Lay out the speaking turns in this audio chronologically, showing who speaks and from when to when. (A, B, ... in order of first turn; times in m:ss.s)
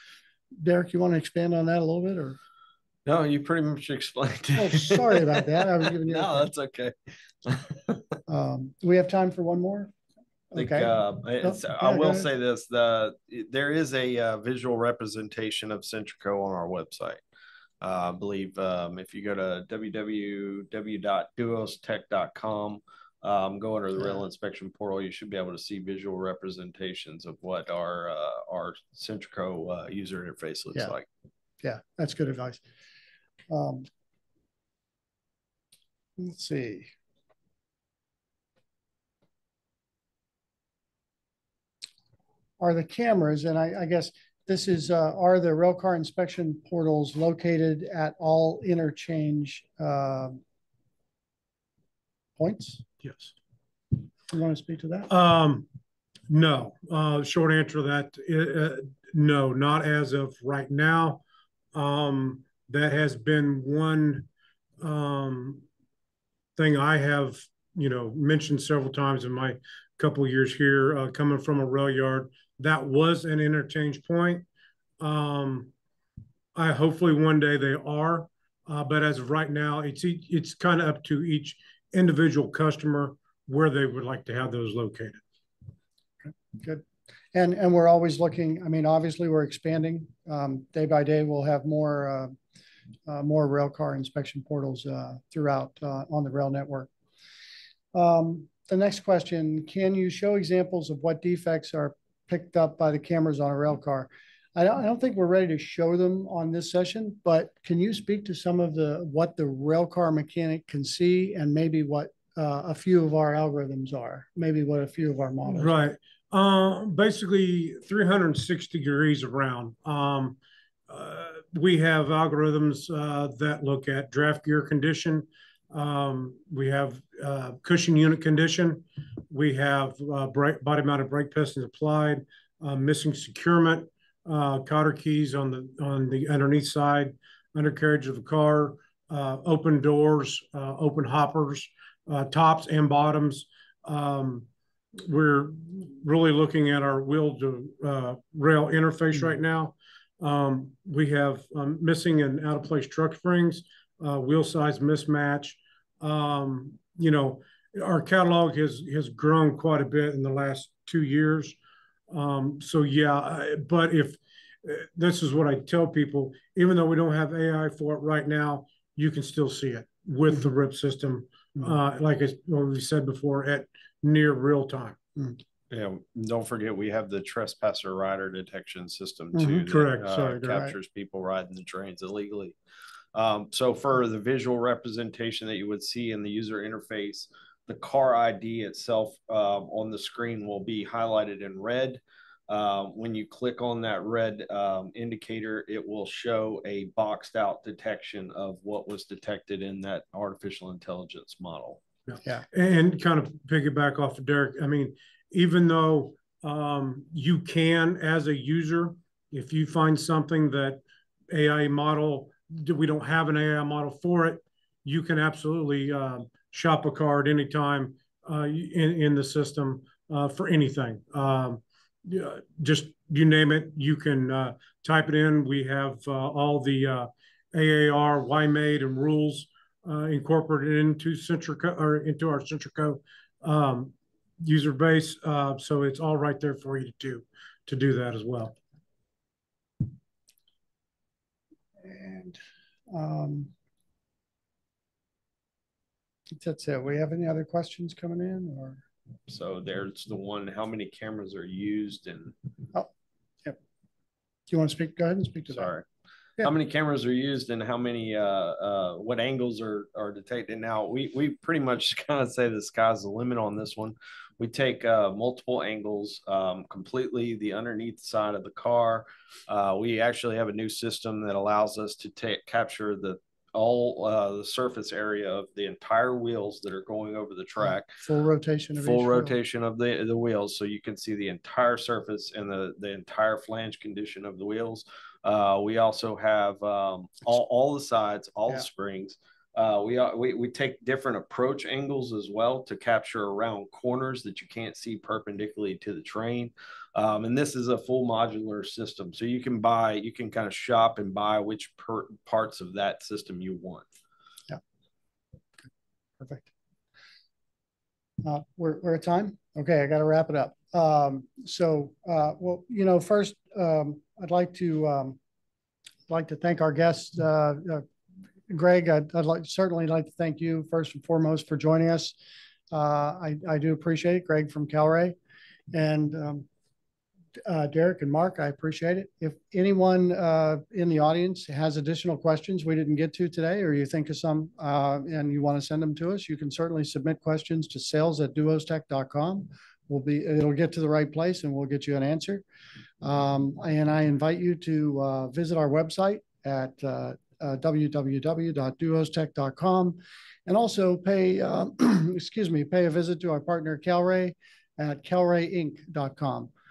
0:00.6-0:02.4 A
0:03.1-0:06.9 B
0:04.6-0:06.5 A
0:07.4-0:08.0 B
0:08.3-0:09.9 A
0:10.5-0:12.3 A
0:10.6-0:17.2 B
0:17.8-0:31.1 B
0:31.6-0:32.6 A
0:33.5-0:33.9 A
0:36.2-0:36.9 A
0:42.6-0:50.4 A
0:52.4-0:52.8 A
0:53.0-0:53.3 C
0:54.3-0:55.1 A
0:55.1-0:55.7 C
0:56.3-1:01.2 C
1:01.7-1:04.3 C
1:04.8-1:05.6 C
1:06.6-1:14.5 C
1:15.0-1:15.7 C
1:16.6-1:25.2 C
1:26.2-1:32.4 A
1:33.1-1:36.9 A
1:37.9-1:55.8 A
1:55.5-2:00.4 C
2:00.9-2:24.5 C
2:25.0-2:41.6 C
2:42.1-2:55.0 C
2:55.7-3:02.6 B
2:59.3-2:59.6 A
2:59.7-3:00.7 C
3:03.1-3:21.8 B
3:22.1-3:58.6 C
4:01.8-4:02.4 A
4:02.9-4:03.5 A
4:06.3-4:08.8 A
4:09.3-4:12.4 B
4:14.5-4:15.7 A
4:15.5-4:15.9 B
4:16.4-4:37.9 B
4:37.6-4:39.3 A
4:38.8-5:03.9 B
5:06.2-5:06.5 A
5:08.2-5:15.2 A
5:16.1-5:17.8 A
5:18.5-5:22.2 A
5:22.7-5:25.2 A
5:25.7-5:26.5 A
5:27.5-5:42.4 A
5:43.0-5:56.5 A